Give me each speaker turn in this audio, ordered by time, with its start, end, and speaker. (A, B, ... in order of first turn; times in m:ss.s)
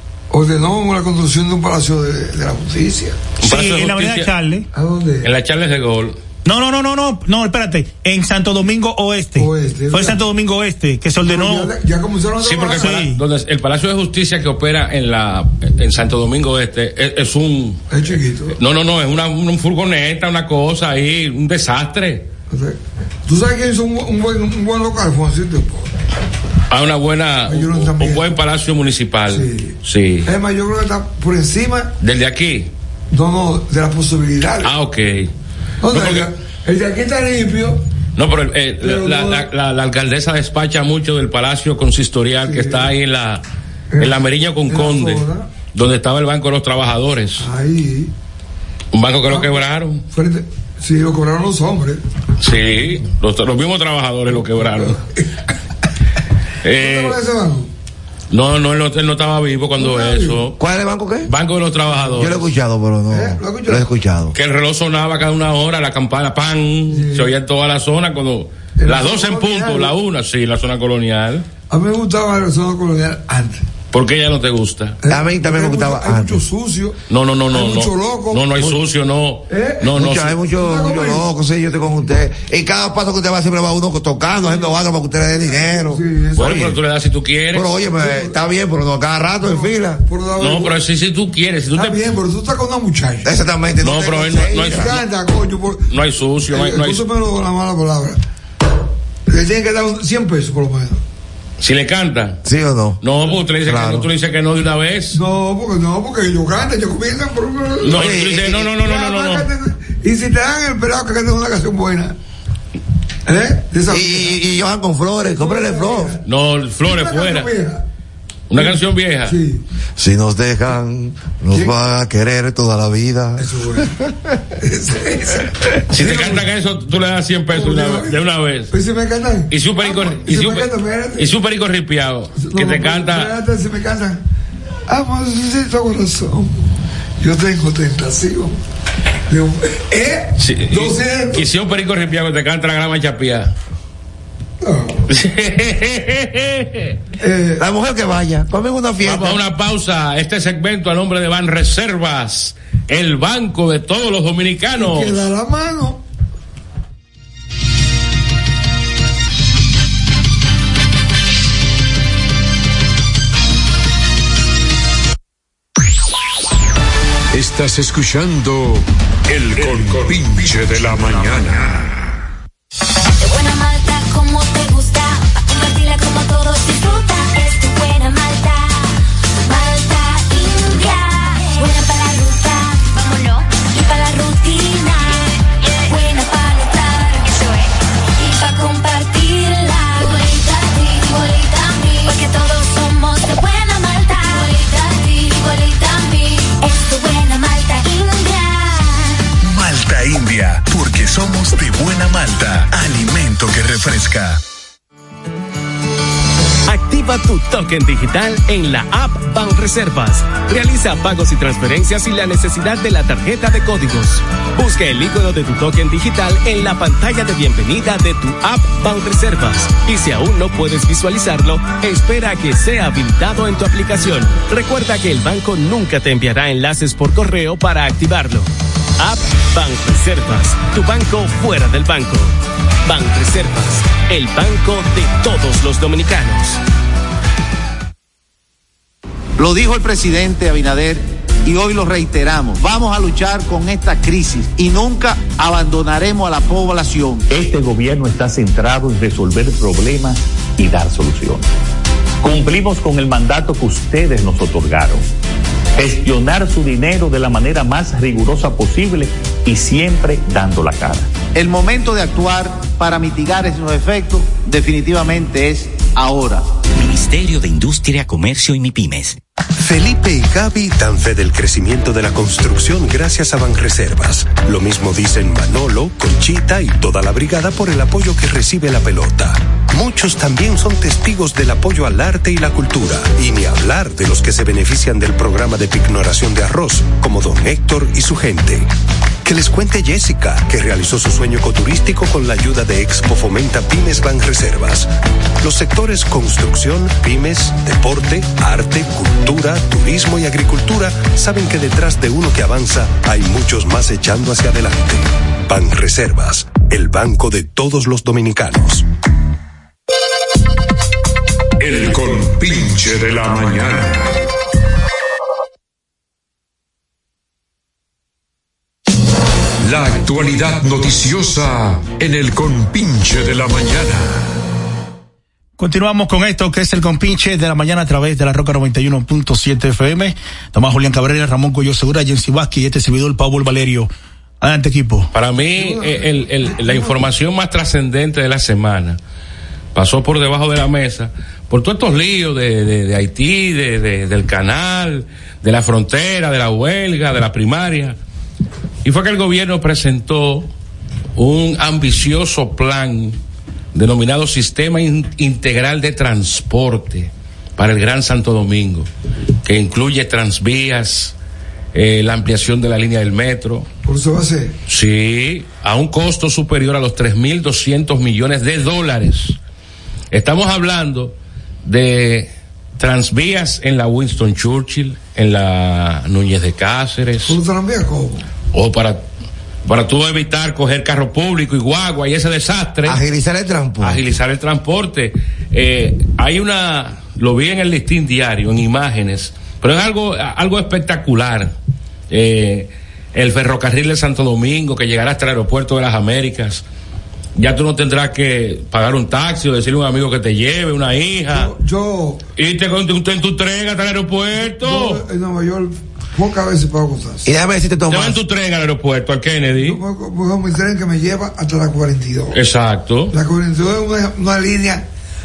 0:00.3-0:03.2 A
0:03.4-0:04.3 B
0:03.4-0:04.6 C
0:04.7-0:05.3 A
0:05.2-0:06.2 B
0:06.4-0:11.7 C
0:09.4-0:10.2 A
0:11.2-0:13.0 A
0:12.4-0:17.9 B
0:12.8-0:13.2 C
0:17.9-0:18.6 A
0:18.5-0:22.3 B
0:22.5-0:25.9 A
0:26.7-0:30.3 B
0:27.4-0:28.3 A
0:29.3-0:31.9 A
0:32.0-0:32.7 B
0:33.1-0:34.7 A
0:34.6-0:35.3 B
0:35.8-0:37.8 A
0:35.9-0:36.3 B
0:38.2-0:43.4 B
0:38.8-0:39.5 A
0:42.4-0:42.9 A
0:43.9-0:45.5 A
0:44.0-0:47.5 B
0:47.4-0:48.1 A
0:48.9-0:50.0 B
0:49.3-0:52.0 A
0:52.4-0:55.0 B
0:54.5-0:55.3 A
0:56.6-0:57.2 B
0:56.8-0:57.7 A
0:58.3-1:00.6 B
0:59.8-1:00.4 A
1:00.6-1:01.3 D
1:01.2-1:02.5 B
1:02.1-1:04.3 D
1:03.1-1:03.8 A
1:04.3-1:11.4 B
1:06.9-1:07.3 A
1:08.8-1:09.9 A
1:11.7-1:13.6 A
1:13.9-1:15.0 B
1:15.0-1:17.0 A
1:15.1-1:16.4 D
1:17.1-1:20.4 B
1:17.5-1:18.7 A
1:19.5-1:20.0 A
1:19.9-1:26.8 D
1:20.5-1:21.3 A
1:24.4-1:26.7 A
1:26.3-1:27.7 B
1:27.5-1:30.0 D
1:27.9-1:28.3 A
1:29.4-1:30.8 A
1:30.4-1:32.0 B
1:31.7-1:33.3 A
1:33.2-1:35.0 D
1:33.8-1:35.0 B
1:34.6-1:35.9 A
1:35.9-1:37.0 B
1:36.5-1:38.2 A
1:39.3-1:41.0 A
1:41.6-1:42.4 B
1:42.4-1:43.0 D
1:43.0-1:45.2 B
1:43.6-1:44.1 D
1:45.1-1:52.2 A
1:47.8-1:49.5 B
1:47.9-1:48.6 D
1:53.2-1:54.4 A
1:53.9-1:56.2 D
1:55.3-1:56.2 A
1:56.2-1:57.5 B
1:56.8-1:57.8 A
1:58.5-1:59.4 B
1:58.5-1:59.6 A
2:00.0-2:04.1 D
2:03.4-2:04.0 A
2:04.6-2:06.4 A
2:05.9-2:08.7 B
2:07.5-2:08.2 A
2:08.7-2:11.3 A
2:09.5-2:13.3 B
2:12.4-2:14.2 A
2:14.9-2:16.5 A
2:17.2-2:18.6 A
2:19.3-2:21.4 A
2:20.4-2:23.5 B
2:24.6-2:25.0 A
2:25.1-2:27.0 B
2:27.2-2:27.6 A
2:27.6-2:29.4 D
2:29.0-2:35.2 B
2:34.8-2:36.0 A
2:47.3-2:52.0 E
2:53.2-3:19.2 F
3:19.4-3:24.4 G
3:26.6-3:56.6 H
3:59.4-4:07.2 I
4:07.3-4:11.4 J
4:12.2-4:15.0 J
4:15.8-4:21.1 J
4:21.3-4:26.4 I
4:26.7-4:29.2 K
4:29.6-4:48.7 L
4:49.2-4:54.9 L
4:55.4-5:08.8 L
5:11.6-5:14.2 E
5:19.6-5:24.2 E
5:25.6-5:33.9 C
5:34.4-5:35.1 C
5:35.1-5:39.0 B
5:35.5-5:37.1 A
5:39.7-5:48.0 B
5:48.8-5:50.5 B
5:51.2-5:53.2 B
5:53.7-5:58.9 B
5:59.4-6:01.1 B
6:01.7-6:03.7 B
6:03.8-6:04.6 A
6:04.7-6:09.4 B
6:10.1-6:17.4 B
6:17.2-6:18.2 A
6:18.5-6:19.0 B
6:19.6-6:23.0 B
6:22.8-6:24.0 D
6:23.8-6:31.5 B
6:32.1-6:36.6 B
6:37.4-6:41.5 B
6:41.3-6:42.2 A
6:42.4-6:45.0 B
6:44.3-6:47.3 A
6:47.2-6:48.2 D
6:47.9-6:49.8 B
6:49.6-6:52.4 A
6:52.3-6:53.1 B
6:53.1-6:54.8 A